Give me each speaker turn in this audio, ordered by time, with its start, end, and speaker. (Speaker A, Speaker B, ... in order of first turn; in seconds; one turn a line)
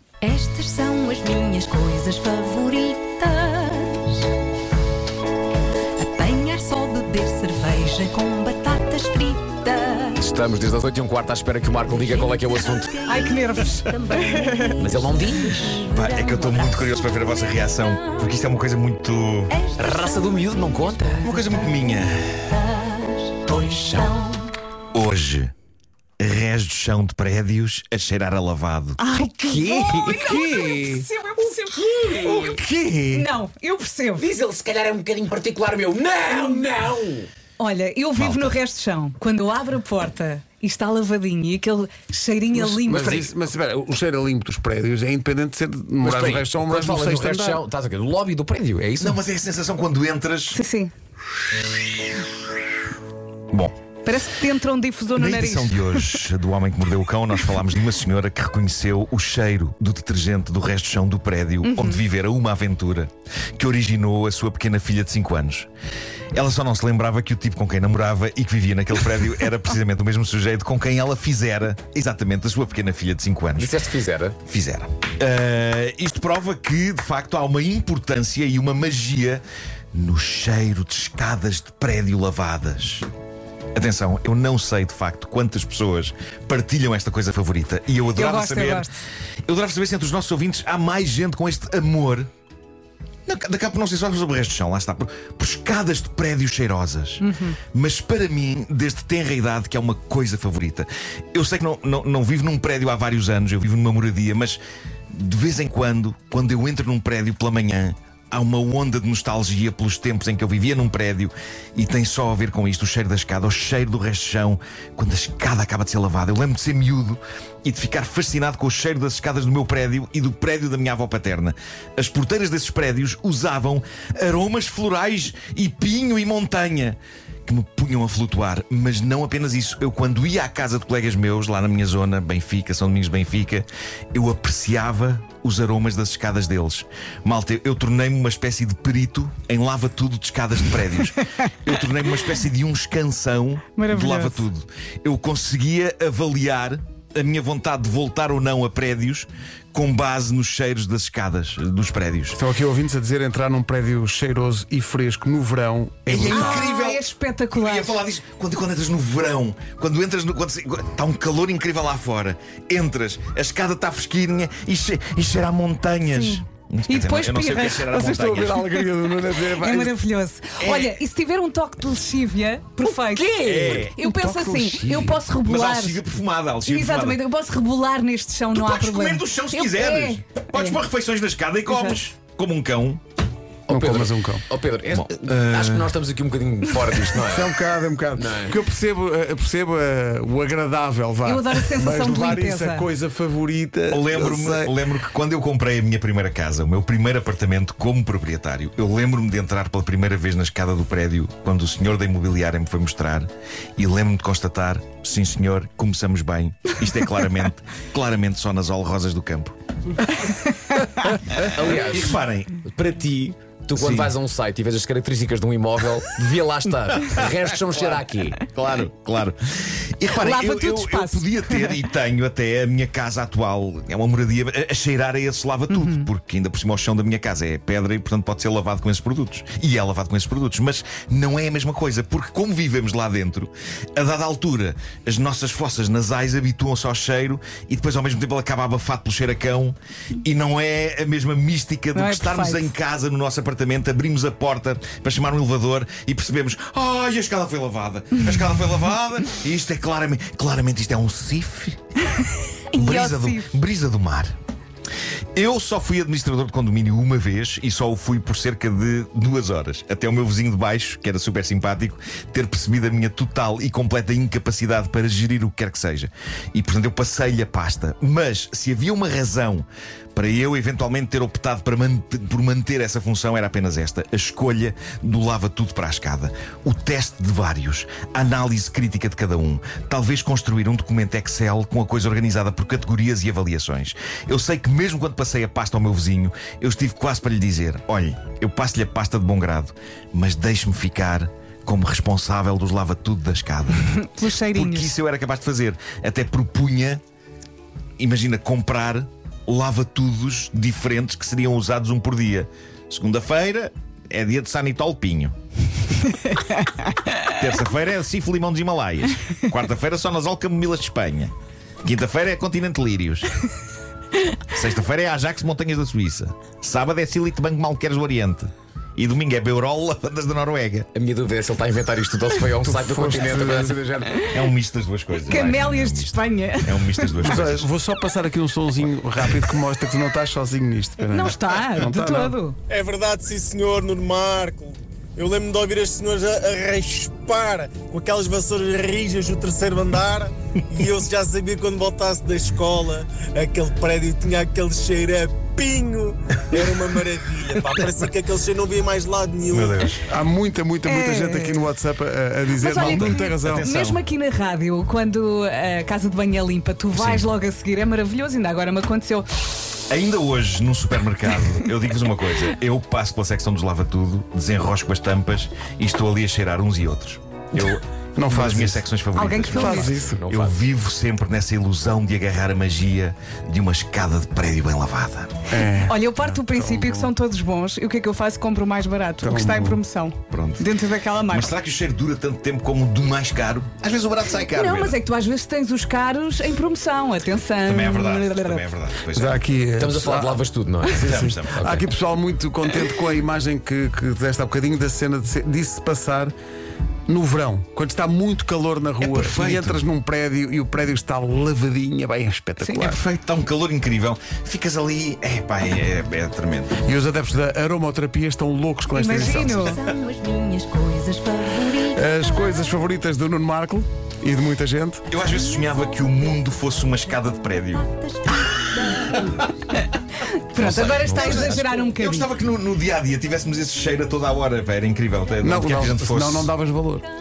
Speaker A: 0.2-4.3
Speaker A: 6.0-10.2
Speaker B: 10.2-13.1
Speaker A: 12.2-13.2
Speaker C: 13.1-14.8
Speaker A: 13.8-16.4
Speaker B: 14.8-15.9
Speaker D: 15.9-19.6
Speaker B: 16.5-16.8
Speaker A: 19.7-20.4
Speaker B: 19.7-21.3
Speaker D: 21.2-22.6
Speaker D: 23.5-24.1
Speaker A: 23.9-24.2
Speaker D: 24.9-25.5
Speaker D: 26.2-29.0
Speaker C: 29.0-32.3
Speaker B: 29.4-31.1
Speaker B: 31.9-32.6
Speaker D: 32.2-33.3
Speaker C: 33.1-34.3
Speaker B: 34.2-37.3
Speaker C: 37.6-43.3
Speaker B: 38.2-38.6
Speaker E: 42.5-47.6
Speaker B: 46.0-49.2
Speaker D: 49.0-50.6
Speaker C: 50.5-50.9
Speaker C: 54.0-56.2
Speaker D: 55.2-65.7
Speaker C: 61.6-62.0
Speaker D: 66.3-73.8
Speaker B: 73.6-74.4
Speaker D: 74.5-79.4
Speaker D: 79.9-83.1
Speaker D: 83.8-88.9
Speaker C: 88.2-88.9
Speaker D: 89.5-92.3
Speaker D: 93.3-104.6
Speaker C: 97.2-97.6
Speaker D: 105.1-152.4
Speaker C: 143.8-144.4
Speaker E: 152.3-156.7
Speaker D: 156.1-168.7
Speaker C: 156.3-158.0
Speaker C: 166.1-168.1
Speaker E: 167.9-169.9
Speaker C: 168.7-173.4
Speaker D: 170.6-171.0
Speaker B: 173.3-173.9
Speaker D: 173.4-174.0
Speaker C: 173.9-176.0
Speaker E: 174.0-175.2
Speaker D: 175.4-177.2
Speaker C: 176.7-180.8
Speaker D: 178.5-183.0
Speaker C: 181.7-182.0
Speaker B: 183.7-187.6
Speaker E: 183.7-184.5
Speaker D: 184.9-185.9
Speaker E: 187.3-194.8
Speaker B: 188.2-188.6
Speaker C: 191.2-192.9
Speaker D: 193.9-209.6
Speaker C: 210.7-211.2
Speaker B: 211.4-218.4
Speaker D: 211.6-212.6
Speaker D: 213.8-214.1
Speaker D: 217.0-251.8
Speaker C: 220.2-221.8
Speaker C: 225.7-226.1
Speaker C: 241.9-242.7
Speaker C: 252.7-253.5
Speaker D: 252.7-254.3
Speaker D: 255.3-293.9
Speaker C: 293.8-294.9
Speaker D: 294.5-297.0
Speaker D: 298.0-305.4
Speaker C: 306.3-307.2
Speaker D: 307.3-313.3
Speaker D: 314.5-320.9
Speaker B: 320.9-324.3
Speaker E: 322.6-323.8
Speaker D: 324.2-327.7
Speaker C: 325.2-327.5
Speaker E: 327.2-332.4
Speaker C: 331.1-332.6
Speaker F: 332.7-349.9
Speaker D: 349.5-350.0
Speaker E: 350.1-353.7
Speaker C: 350.9-351.7
Speaker C: 352.6-359.3
Speaker D: 352.7-354.0
Speaker D: 356.9-357.3
Speaker D: 359.9-375.4
Speaker E: 368.2-368.8
Speaker C: 369.1-369.9
Speaker E: 369.5-370.2
Speaker B: 369.8-370.6
Speaker E: 375.5-377.1
Speaker C: 375.9-381.5
Speaker E: 379.2-379.8
Speaker D: 380.3-380.7
Speaker D: 381.3-385.0
Speaker C: 384.5-388.6
Speaker D: 387.6-389.4
Speaker E: 389.1-396.3
Speaker B: 389.8-391.9
Speaker D: 390.9-391.6
Speaker E: 397.1-403.0
Speaker D: 399.0-399.8
Speaker D: 402.6-406.8
Speaker E: 406.8-409.8
Speaker C: 408.9-409.8
Speaker A: 409.8-412.2
Speaker E: 411.8-415.1
Speaker D: 415.1-419.4
Speaker A: 418.2-419.0
Speaker C: 420.5-422.3
Speaker B: 420.6-421.9
Speaker D: 421.1-426.5
Speaker E: 425.4-427.1